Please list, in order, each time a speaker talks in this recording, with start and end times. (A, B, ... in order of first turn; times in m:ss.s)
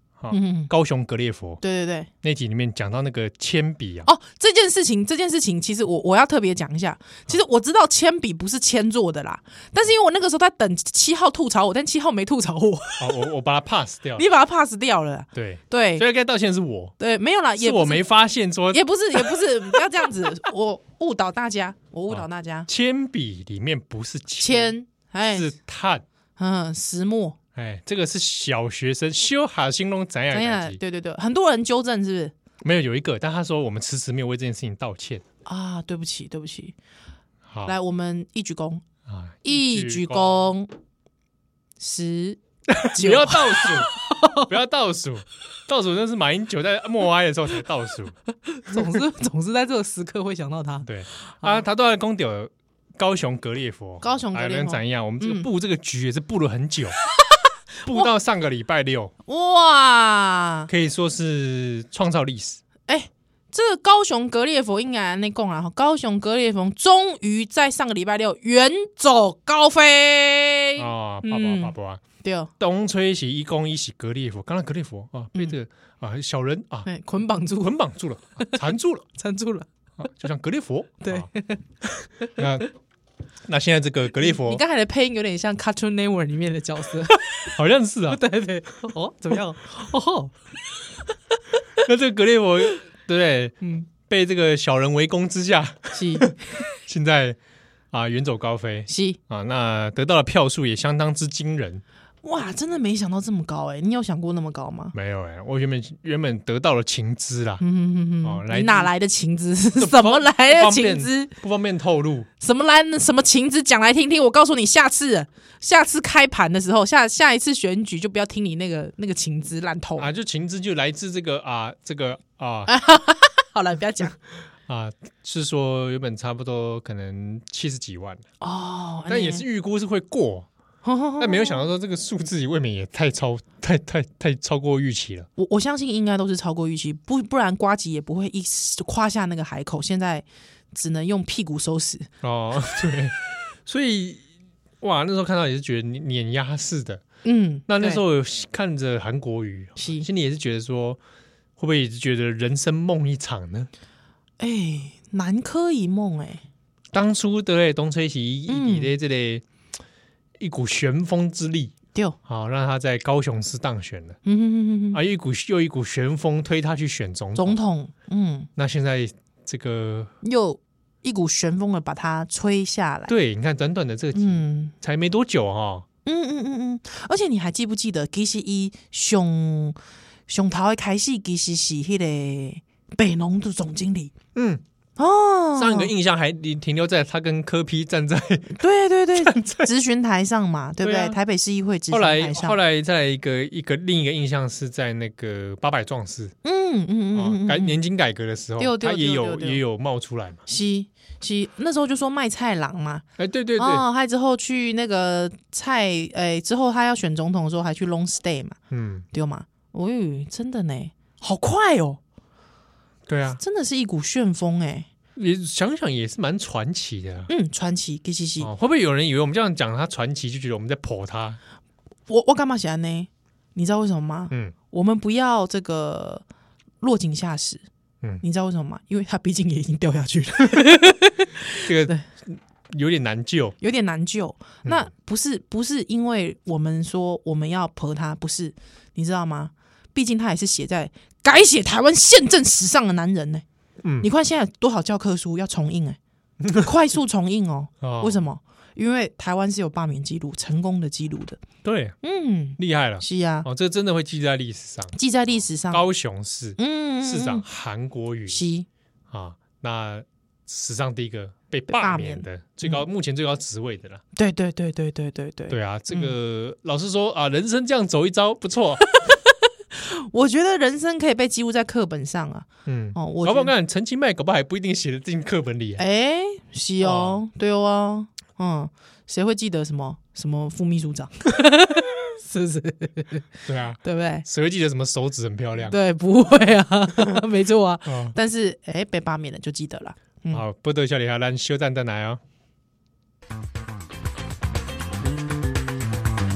0:00.2-0:01.6 A
0:00.3-0:00.7 B
0:01.6-0:02.1 B
0:02.2-0:04.1 A
0:04.0-0:13.3 B
0:13.0-0:14.2 A
0:14.2-0:16.0 B
0:15.3-0:16.9 A
0:17.0-0:18.0 B
0:17.6-0:19.3 A
0:18.7-0:22.7 B
0:22.1-0:24.7 A
0:24.4-0:25.5 B
0:25.2-0:26.0 A
0:26.4-0:27.4 B
0:27.5-0:30.8 A
0:30.3-0:32.3 B
0:32.6-0:35.2 A
0:35.4-0:36.7 B
0:37.5-0:37.7 A
0:37.6-0:38.8 B
0:39.0-0:40.5 A
0:39.4-0:40.7 B
0:41.8-0:44.5 B
0:42.7-0:48.2 A
0:48.5-0:51.6 B
0:50.8-0:57.0 A
0:54.0-0:55.5 B
0:57.8-0:59.1 A
0:59.3-1:00.7 B
1:00.7-1:02.6 A
1:02.9-1:12.5 B
1:10.8-1:12.0 A
1:12.6-1:16.9 A
1:16.8-1:17.8 B
1:17.6-1:19.0 A
1:19.2-1:19.7 B
1:20.0-1:21.3 A
1:21.0-1:21.6 B
1:22.4-1:22.7 A
1:23.5-1:24.6 A
1:24.2-1:27.2 B
1:27.5-1:28.2 A
1:28.1-1:30.3 B
1:31.8-1:37.4 A
1:35.9-1:36.4 B
1:37.9-1:41.8 A
1:38.9-1:39.2 B
1:42.2-1:44.9 B
1:44.9-1:47.6 A
1:47.6-1:51.3 B
1:48.2-1:48.9 A
1:49.8-1:52.3 A
1:52.4-2:00.1 B
2:00.0-2:02.7 A
2:02.7-2:04.2 B
2:04.7-2:08.2 A
2:08.4-2:09.4 B
2:09.1-2:10.5 A
2:10.8-2:11.6 B
2:11.2-2:15.3 A
2:15.4-2:22.1 B
2:22.2-2:24.2 A
2:24.8-2:27.0 A
2:27.2-2:28.0 B
2:27.7-2:31.0 A
2:29.8-2:30.0 B
2:31.6-2:33.7 A
2:34.4-2:36.4 B
2:36.9-2:39.4 A
2:38.5-2:38.9 B
2:40.4-2:41.7 A
2:42.2-2:44.2 A
2:44.2-2:45.0 B
2:44.9-2:47.6 A
2:47.4-2:48.5 B
2:48.6-2:50.1 A
2:50.2-2:53.1 B
2:53.1-2:55.8 A
2:54.1-2:54.7 B
2:56.0-2:59.8 B
3:00.3-3:04.1 B
3:04.3-3:04.6 A
3:05.0-3:05.9 B
3:05.6-3:08.6 A
3:08.5-3:12.6 B
3:09.2-3:09.7 A
3:10.8-3:11.2 A
3:11.9-3:16.3 A
3:16.4-3:17.8 B
3:17.1-3:20.4 A
3:18.6-3:19.6 B
3:20.5-3:23.0 B
3:23.2-3:23.8 A
3:23.6-3:28.6 B
3:28.7-3:29.0 A
3:29.1-3:32.0 B
3:33.1-3:33.4 A
3:33.4-3:34.9 B
3:35.2-3:37.3 A
3:37.3-3:38.5 B
3:38.4-3:41.4 A
3:42.1-3:46.2 B
3:46.8-3:47.6 B
3:48.2-3:52.0 B
3:51.6-3:53.6 A
3:53.6-4:03.4 B
4:03.8-4:04.1 A
4:04.0-4:06.0 B
4:06.4-4:06.7 A
4:06.5-4:11.4 B
4:07.8-4:08.2 A
4:11.6-4:12.0 A
4:12.0-4:13.5 B
4:12.6-4:14.9 A
4:14.9-4:15.8 B
4:15.7-4:18.4 A
4:16.6-4:17.4 B
4:18.3-4:18.7 B
4:19.1-4:24.0 A
4:21.7-4:22.8 B
4:24.1-4:26.1 B
4:25.5-4:28.8 A
4:28.9-4:33.5 B
4:32.6-4:35.8 A
4:35.8-4:43.2 B
4:36.8-4:37.2 A
4:43.4-4:45.8 A
4:43.8-4:44.2 B
4:45.6-4:50.4 B
4:47.8-4:48.2 A
4:50.3-4:52.2 A